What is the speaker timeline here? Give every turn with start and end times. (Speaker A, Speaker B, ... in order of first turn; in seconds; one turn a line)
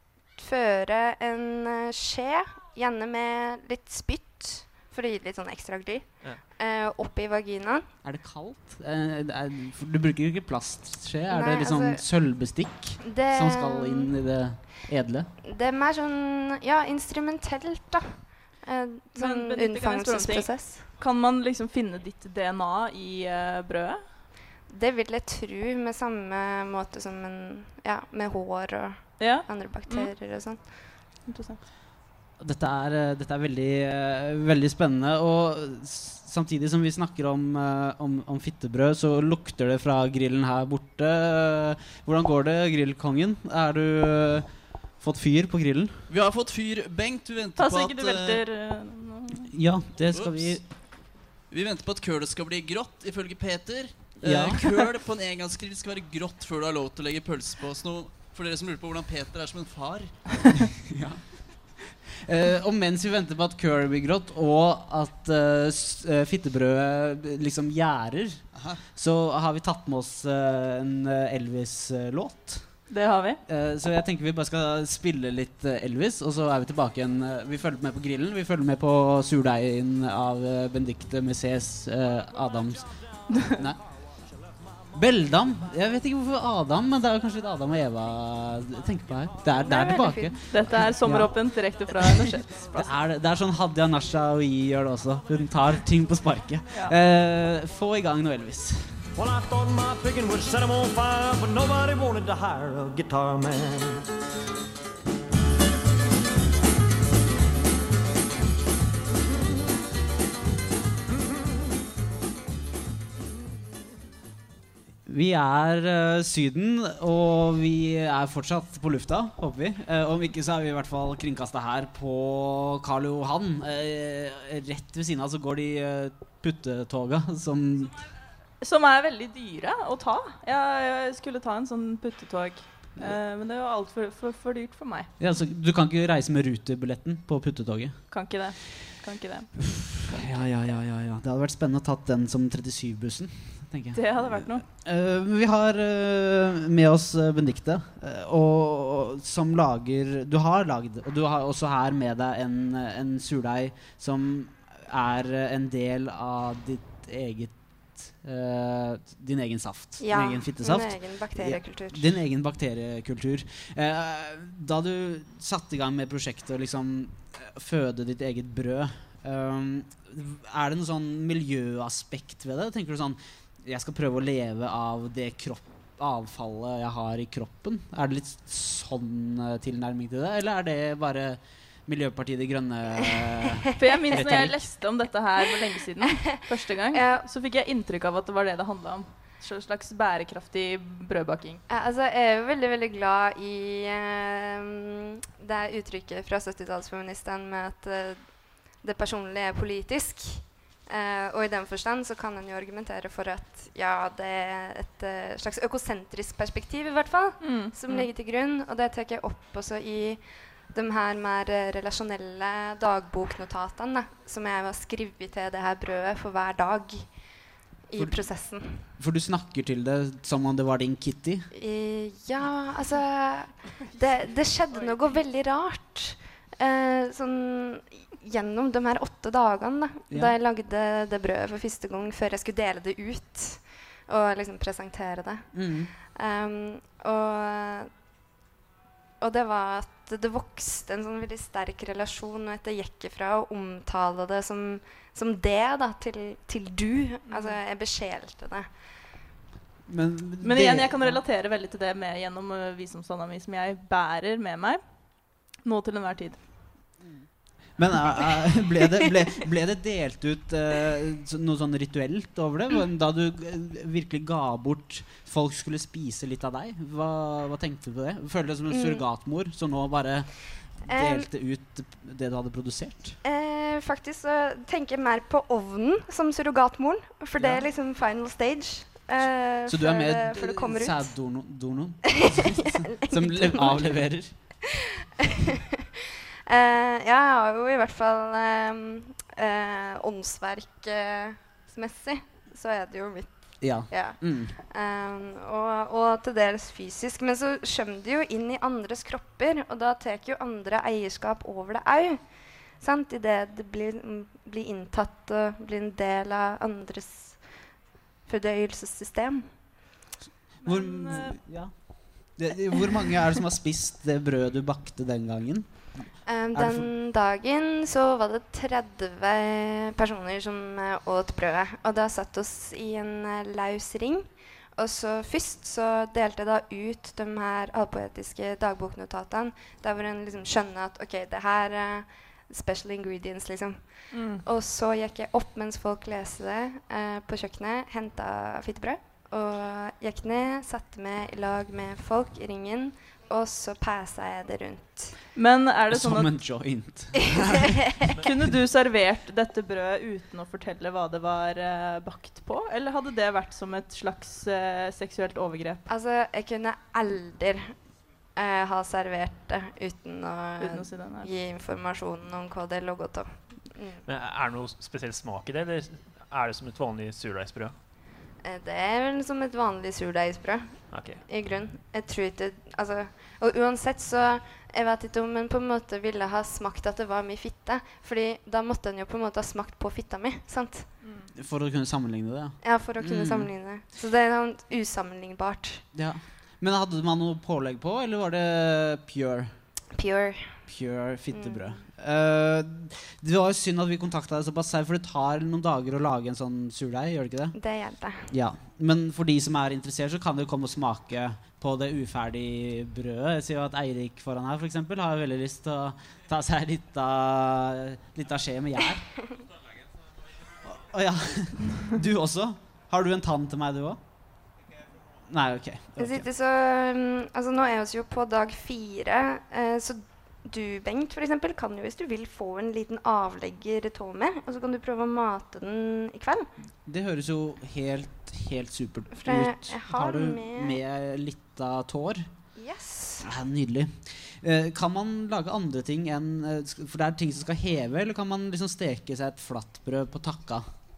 Speaker A: 0.3-7.8
Speaker B: 8.0-15.3
Speaker A: 11.3-12.0
Speaker A: 13.0-14.1
Speaker A: 15.4-20.8
Speaker C: 19.1-24.1
Speaker A: 24.7-30.8
Speaker C: 29.2-31.6
Speaker B: 32.4-46.0
Speaker D: 46.1-48.4
Speaker C: 47.6-49.5
Speaker B: 49.5-50.6
Speaker D: 50.1-60.5
Speaker B: 54.2-54.6
Speaker B: 60.9-72.8
Speaker C: 72.9-73.4
Speaker B: 73.5-83.8
Speaker C: 83.3-83.5
Speaker B: 84.9-99.0
Speaker C: 89.6-92.9
Speaker C: 96.7-97.0
Speaker E: 99.2-104.0
Speaker B: 115.0-127.9
Speaker C: 128.6-135.1
Speaker B: 135.2-138.0
Speaker C: 138.1-139.5
Speaker B: 140.0-184.7
Speaker C: 143.9-144.6
Speaker A: 160.0-162.1
Speaker C: 183.8-191.6
Speaker A: 186.0-186.3
Speaker A: 186.9-187.2
Speaker A: 191.7-217.2
Speaker C: 207.4-208.0
Speaker A: 217.9-218.8
Speaker B: 217.9-218.2
Speaker B: 219.0-221.5
Speaker A: 221.5-237.9
Speaker C: 223.8-225.2
Speaker B: 235.5-235.9
Speaker A: 239.2-248.7
Speaker C: 247.3-247.6
Speaker B: 249.8-251.2
Speaker C: 250.4-254.8
Speaker C: 255.6-256.4
Speaker B: 257.0-257.2
Speaker B: 257.8-273.2
Speaker A: 268.7-269.0
Speaker A: 270.9-271.3
Speaker A: 273.2-281.1
Speaker B: 277.4-277.6
Speaker B: 279.6-284.4
Speaker A: 282.7-284.0
Speaker A: 285.2-285.6
Speaker A: 286.5-307.7
Speaker B: 293.6-294.6
Speaker A: 308.2-309.5
Speaker C: 310.6-311.4
Speaker B: 310.6-316.9
Speaker A: 316.2-345.2
Speaker C: 334.1-334.4
Speaker C: 345.3-346.3
Speaker B: 345.9-347.8
Speaker A: 347.8-348.1
Speaker C: 348.2-355.8
Speaker A: 355.9-357.8
Speaker A: 358.4-364.0
Speaker C: 360.6-361.3
Speaker F: 364.1-367.8
Speaker A: 368.4-380.9
Speaker F: 370.9-371.2
Speaker C: 381.0-381.3
Speaker B: 381.4-383.5
Speaker A: 382.6-385.8
Speaker B: 385.9-389.5
Speaker A: 389.9-390.6
Speaker B: 390.7-397.6
Speaker A: 391.3-391.8
Speaker A: 397.5-398.3
Speaker B: 398.3-409.1
Speaker B: 410.6-414.0
Speaker B: 415.3-416.3
Speaker A: 416.0-426.5
Speaker B: 426.8-432.3
Speaker A: 429.1-430.8
Speaker A: 432.6-433.3
Speaker B: 433.2-440.7